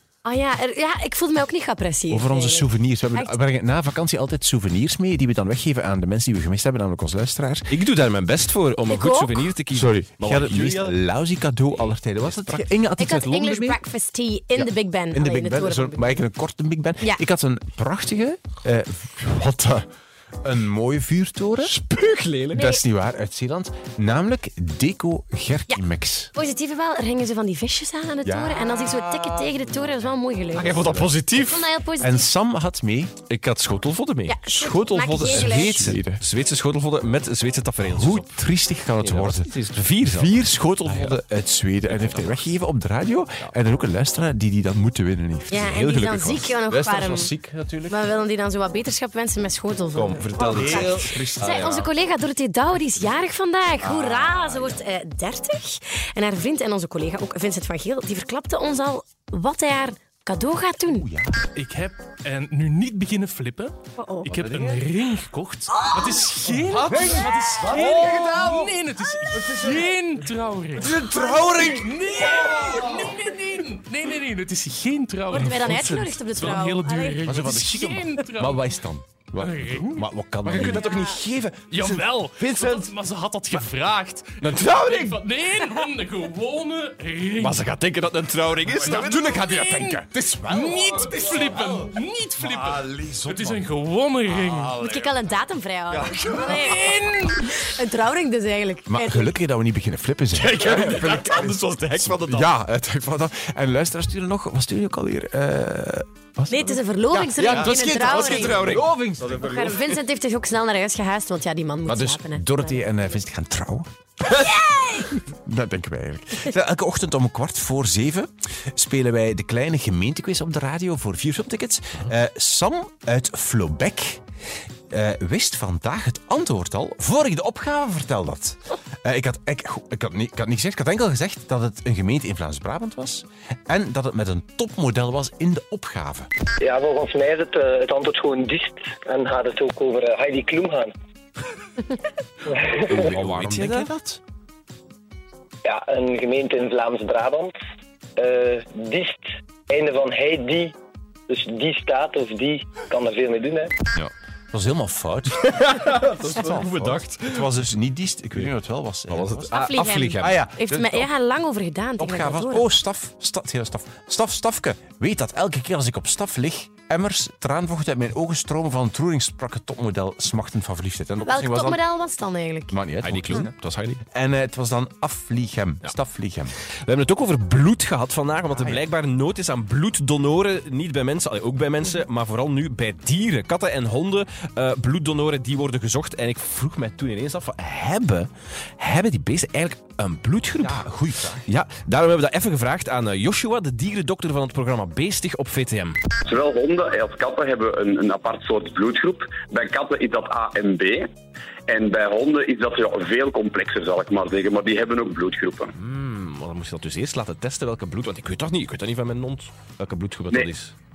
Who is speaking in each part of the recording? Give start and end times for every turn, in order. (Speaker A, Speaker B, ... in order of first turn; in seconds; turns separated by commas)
Speaker A: 0.2-3.3, Speaker B: 2.1-7.7, Speaker C: 7.7-11.0, Speaker A: 8.9-9.4, Speaker B: 9.7-13.8, Speaker C: 12.2-12.7, Speaker A: 13.0-16.2, Speaker B: 14.6-19.9, Speaker B: 20.4-21.7, Speaker C: 21.7-22.6, Speaker B: 22.5-26.3, Speaker A: 22.6-22.8, Speaker A: 26.4-32.3, Speaker B: 28.2-29.4, Speaker C: 30.6-31.7, Speaker B: 30.6-31.1, Speaker B: 32.0-33.1, Speaker C: 33.3-38.3, Speaker A: 34.3-35.8, Speaker B: 35.2-36.2, Speaker B: 37.8-45.8, Speaker C: 39.0-41.2, Speaker C: 41.9-42.6, Speaker A: 45.5-47.3, Speaker C: 45.6-46.6, Speaker B: 46.7-47.9, Speaker A: 47.9-61.1, Speaker C: 49.9-51.9, Speaker B: 50.4-51.7, Speaker B: 54.1-54.6, Speaker C: 54.3-54.6, Speaker B: 60.9-61.4, Speaker D: 61.6-78.6, Speaker A: 64.0-64.3, Speaker B: 64.3-64.8, Speaker A: 65.7-66.2, Speaker B: 66.7-68.6, Speaker B: 70.8-72.8, Speaker A: 75.3-77.4, Speaker B: 75.4-76.2, Speaker B: 77.2-82.9, Speaker D: 79.4-80.8, Speaker C: 80.5-81.3, Speaker A: 80.6-81.2, Speaker D: 81.6-87.7, Speaker B: 84.4-85.3, Speaker C: 87.4-89.0, Speaker B: 88.6-91.7, Speaker D: 88.8-94.8, Speaker B: 92.4-93.7, Speaker B: 94.5-95.1, Speaker A: 94.8-99.3, Speaker C: 95.9-96.4, Speaker D: 96.3-97.6, Speaker B: 98.9-109.6, Speaker C: 100.3-102.5, Speaker A: 106.5-108.7, Speaker C: 107.4-109.9, Speaker A: 109.3-112.9, Speaker B: 111.9-113.9, Speaker A: 114.4-115.1, Speaker B: 115.0-124.2, Speaker B: 124.9-136.3, Speaker E: 136.6-140.9, Speaker E: 142.5-142.9, Speaker C: 142.7-143.9, Speaker B: 142.9-144.2, Speaker E: 145.7-147.5, Speaker E: 148.2-150.8, Speaker E: 151.3-153.7, Speaker B: 154.5-155.5, Speaker C: 155.3-157.6, Speaker B: 156.2-159.5, Speaker C: 159.1-160.3, Speaker A: 159.5-162.7, Speaker B: 160.2-161.1, Speaker B: 162.0-171.8, Speaker A: 171.2-172.8, Speaker B: 172.7-176.5, Speaker C: 173.0-174.0, Speaker C: 176.8-190.8, Speaker B: 190.6-191.5, Speaker C: 191.5-196.0, Speaker F: 196.2-201.1, Speaker F: 201.7-205.7, Speaker C: 205.8-210.7